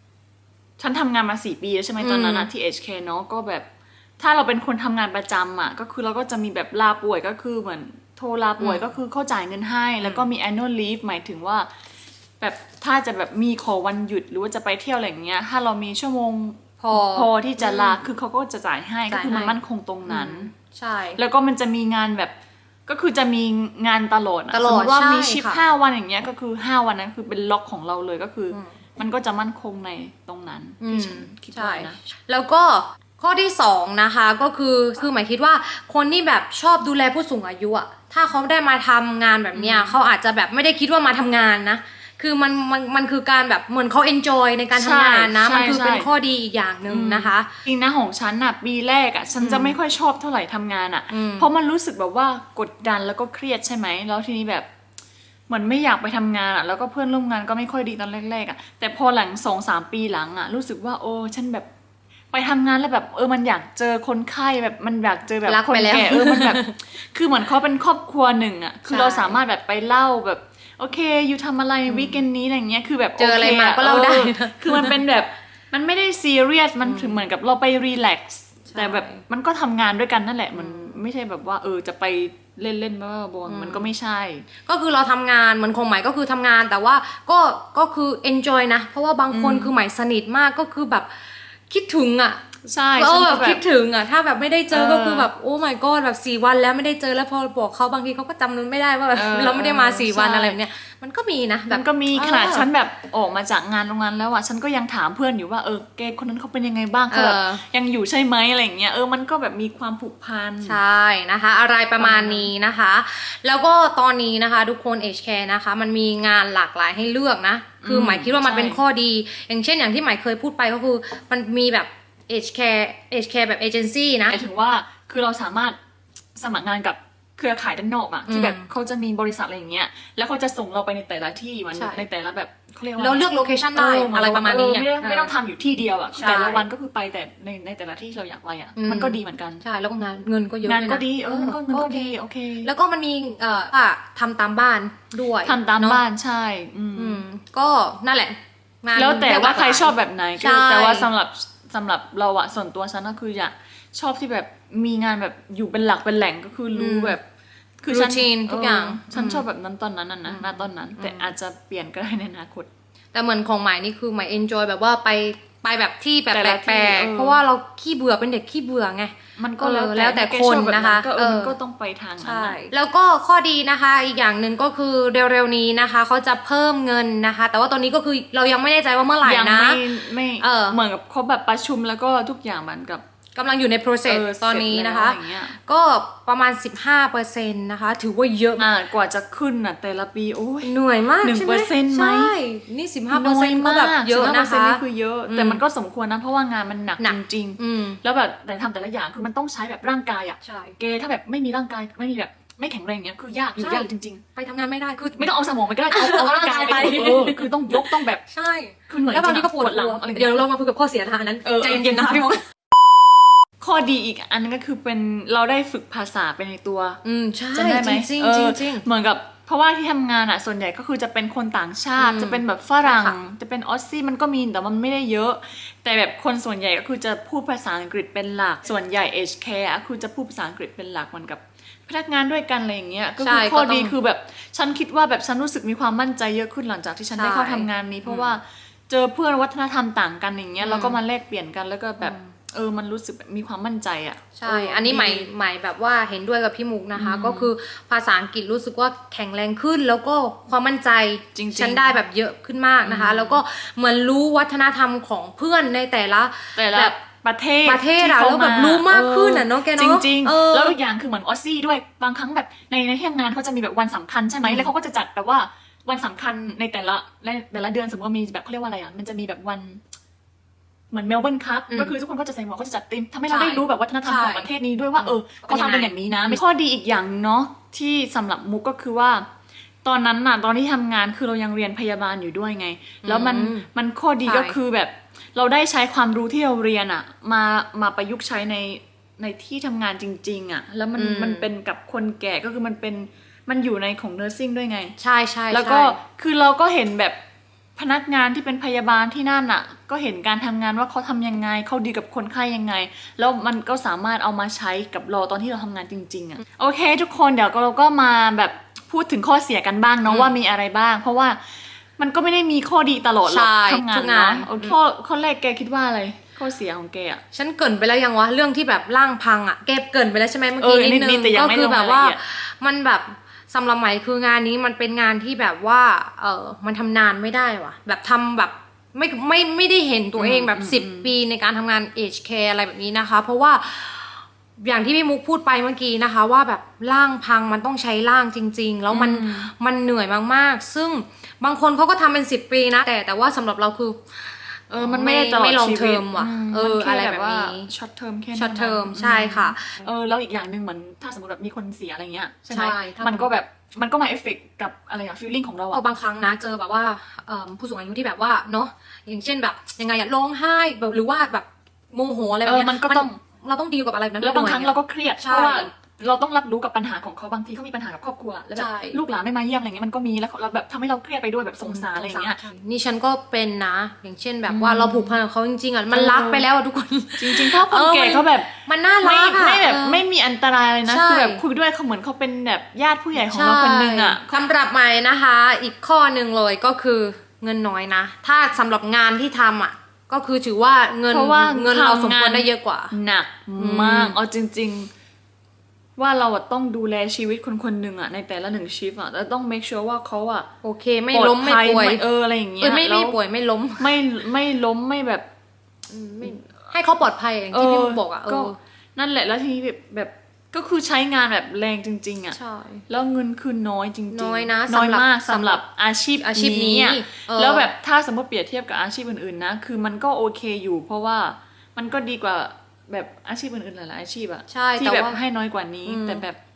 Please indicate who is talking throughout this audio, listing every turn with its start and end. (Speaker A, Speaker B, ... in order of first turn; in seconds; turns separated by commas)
Speaker A: 0.8-3.6, Speaker B: 2.0-2.5, Speaker A: 4.2-11.7, Speaker B: 8.6-8.8, Speaker A: 12.4-20.5, Speaker B: 16.8-18.0, Speaker B: 19.1-21.2, Speaker A: 21.1-22.3, Speaker A: 22.9-32.0, Speaker B: 24.5-25.6, Speaker B: 30.8-47.5, Speaker A: 39.5-39.9, Speaker A: 44.7-46.1, Speaker A: 46.9-54.7, Speaker B: 49.4-49.8, Speaker B: 51.1-51.5, Speaker A: 55.5-61.7, Speaker A: 62.3-84.5, Speaker B: 65.5-66.8, Speaker B: 68.8-69.4, Speaker B: 71.9-72.2, Speaker B: 73.2-75.0, Speaker B: 76.8-77.2, Speaker B: 78.7-79.2, Speaker B: 80.5-81.0, Speaker B: 83.5-83.9, Speaker B: 84.6-92.4, Speaker A: 89.3-89.7, Speaker A: 92.7-93.6, Speaker B: 93.0-102.7, Speaker A: 94.7-95.3, Speaker A: 99.1-100.6, Speaker A: 101.7-110.8, Speaker B: 107.1-107.6, Speaker B: 110.6-124.4, Speaker A: 112.0-112.5, Speaker A: 117.8-118.8, Speaker A: 124.3-125.8, Speaker A: 126.3-139.6, Speaker B: 128.3-128.7, Speaker B: 131.7-132.0, Speaker B: 133.0-135.3, Speaker B: 136.1-136.6, Speaker B: 138.8-146.0, Speaker A: 140.6-142.7, Speaker A: 145.4-147.2, Speaker B: 146.9-151.1, Speaker A: 148.9-157.2, Speaker B: 156.7-157.2, Speaker A: 157.8-162.7, Speaker B: 157.9-159.4, Speaker B: 160.3-161.3, Speaker B: 163.1-171.5, Speaker A: 166.3-167.4, Speaker A: 169.3-172.7, Speaker B: 172.2-180.8, Speaker A: 179.2-183.0, Speaker B: 183.3-188.7, Speaker A: 184.1-185.6, Speaker A: 188.6-192.3, Speaker B: 190.6-195.6, Speaker A: 193.1-204.2, Speaker B: 197.0-198.0, Speaker B: 200.4-200.8, Speaker B: 203.6-205.3, Speaker A: 205.2-208.2, Speaker B: 205.9-212.4, Speaker A: 208.9-210.4, Speaker A: 211.4-212.3, Speaker A: 213.6-217.0, Speaker B: 217.0-218.8, Speaker A: 217.5-245.3, Speaker B: 222.0-223.2, Speaker B: 233.2-233.9, Speaker B: 237.1-238.3, Speaker B: 240.6-241.0, Speaker B: 242.0-242.3, Speaker B: 244.3-256.9, Speaker A: 246.9-247.5, Speaker A: 251.3-251.9, Speaker A: 252.8-253.4, Speaker A: 256.5-269.8, Speaker B: 257.6-260.8, Speaker A: 270.9-279.3, Speaker B: 273.3-274.5, Speaker B: 275.0-276.4, Speaker A: 279.8-294.9, Speaker B: 283.0-283.6, Speaker B: 284.2-284.6, Speaker B: 290.9-291.5, Speaker B: 295.0-296.0, Speaker A: 295.5-297.2, Speaker A: 297.8-317.2, Speaker B: 310.1-310.3, Speaker B: 313.3-314.8, Speaker B: 317.3-347.7, Speaker A: 320.6-322.2, Speaker A: 330.1-331.1, Speaker A: 338.9-339.5, Speaker A: 344.7-355.8, Speaker B: 348.3-349.8, Speaker B: 352.5-353.3, Speaker B: 355.7-365.7, Speaker A: 362.4-363.2, Speaker A: 364.2-372.4, Speaker B: 368.5-369.0, Speaker B: 371.6-380.0, Speaker A: 374.5-375.2, Speaker A: 375.9-376.4, Speaker A: 377.2-384.4, Speaker B: 380.9-381.4, Speaker B: 383.2-392.9, Speaker A: 391.1-394.9, Speaker B: 393.6-394.1, Speaker A: 396.0-400.5, Speaker B: 400.6-402.0, Speaker A: 401.1-403.2, Speaker B: 402.6-403.9, Speaker A: 403.8-405.3, Speaker B: 405.9-408.6, Speaker A: 407.5-412.4, Speaker B: 412.3-412.8, Speaker A: 412.9-426.4, Speaker B: 414.1-415.6, Speaker B: 416.2-417.7, Speaker B: 424.5-425.2, Speaker B: 425.9-426.2